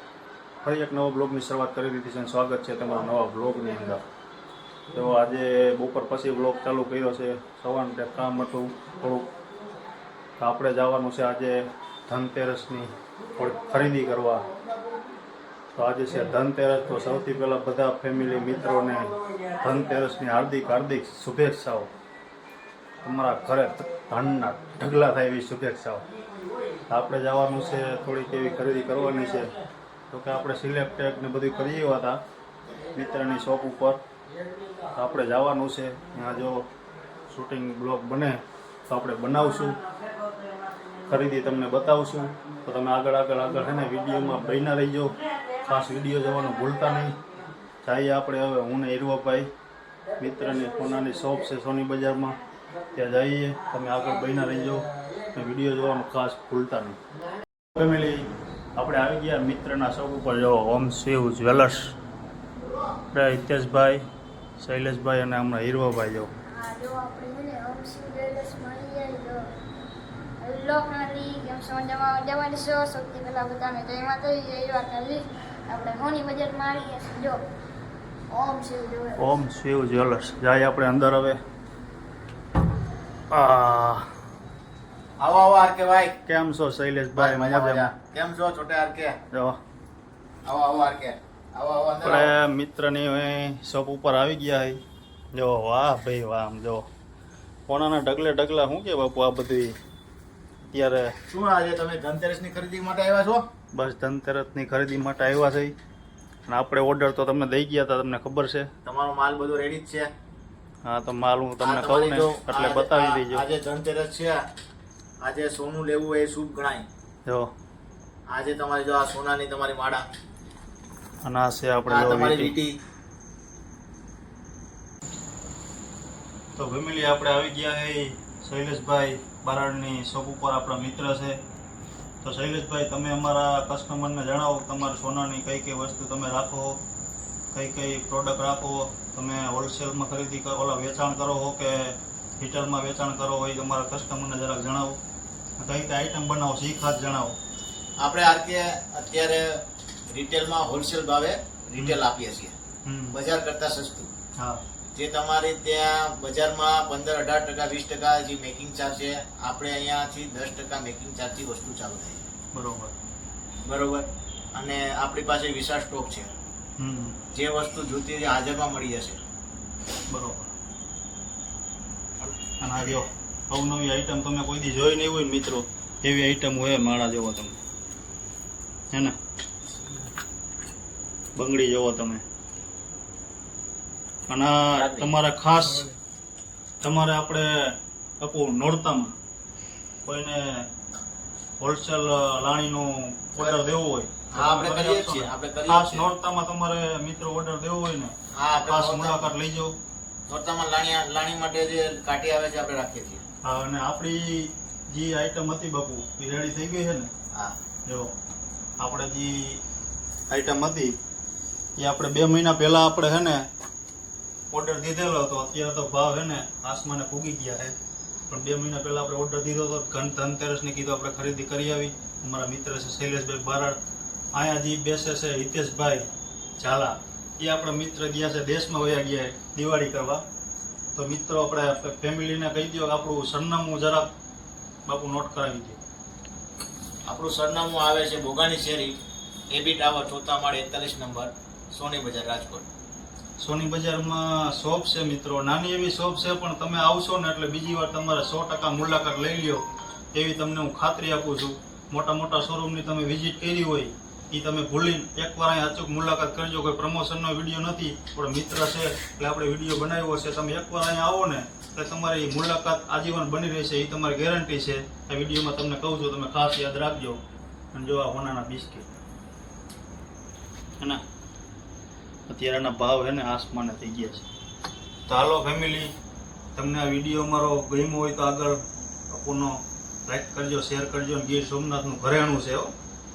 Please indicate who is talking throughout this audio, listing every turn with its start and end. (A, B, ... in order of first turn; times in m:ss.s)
0:00.6-0:04.0 A
0:04.9-0:09.3 A
0:10.4-0:14.4 A
0:15.8-0:21.9 A
0:23.0-0:26.0 A
0:26.9-0:29.5 A
0:30.1-0:32.2 A
0:33.0-0:34.0 A
0:35.0-0:36.7 A
0:37.3-0:39.8 A
0:41.1-0:47.2 A
0:47.8-0:49.5 A
0:50.2-0:52.4 A
0:53.0-0:57.0 A
0:57.8-1:01.9 A
1:03.1-1:04.0 A
1:04.6-1:06.3 A
1:06.5-1:09.4 B
1:10.4-1:17.4 B
1:18.3-1:19.2 B
1:19.2-1:21.4 A
1:23.3-1:24.1 A
1:25.2-1:26.2 C
1:26.2-1:27.9 A
1:27.2-1:29.2 C
1:29.3-1:29.6 A
1:30.4-1:32.3 C
1:32.0-1:34.8 A
1:35.3-1:36.9 A
1:37.7-1:39.8 A
1:40.6-1:41.2 A
1:41.3-1:43.4 C
1:43.7-1:45.8 A
1:46.5-1:48.7 A
1:48.8-1:50.1 C
1:50.8-1:53.4 A
1:51.6-1:54.4 C
1:55.2-1:56.9 C
1:57.3-1:57.5 A
1:58.3-2:00.0 C
2:01.2-2:02.5 A
2:01.9-2:02.8 C
2:06.6-2:11.4 A
2:12.2-2:16.8 A
2:17.5-2:25.0 A
2:25.6-2:27.4 A
2:28.0-2:32.6 C
2:32.8-2:33.2 A
2:33.1-2:34.1 C
2:34.4-2:34.6 A
2:34.9-2:42.2 C
2:42.5-2:42.9 A
2:43.7-2:46.3 C
2:46.8-2:47.2 A
2:47.3-2:49.2 C
2:50.1-2:50.5 A
2:52.6-2:57.6 A
3:01.4-3:02.2 A
3:04.3-3:05.9 A
3:04.8-3:05.1 C
3:06.8-3:09.2 A
3:10.0-3:10.7 A
3:11.6-3:19.8 A
3:13.4-3:13.7 C
3:14.3-3:16.1 C
3:18.4-3:19.3 C
3:20.3-3:23.2 C
3:23.4-3:27.1 A
3:27.3-3:27.6 C
3:27.9-3:28.1 A
3:28.8-3:29.6 A
3:30.3-3:30.9 A
3:31.8-3:33.5 A
3:34.5-3:37.8 A
3:38.3-3:43.8 A
3:44.3-3:50.2 A
3:51.0-3:54.1 A
3:54.9-3:55.8 A
3:57.1-3:59.0 C
3:59.5-4:02.7 C
4:03.4-4:27.2 A
4:27.7-4:28.9 A
4:32.3-4:34.3 A
4:35.1-4:35.9 A
4:36.6-4:42.7 A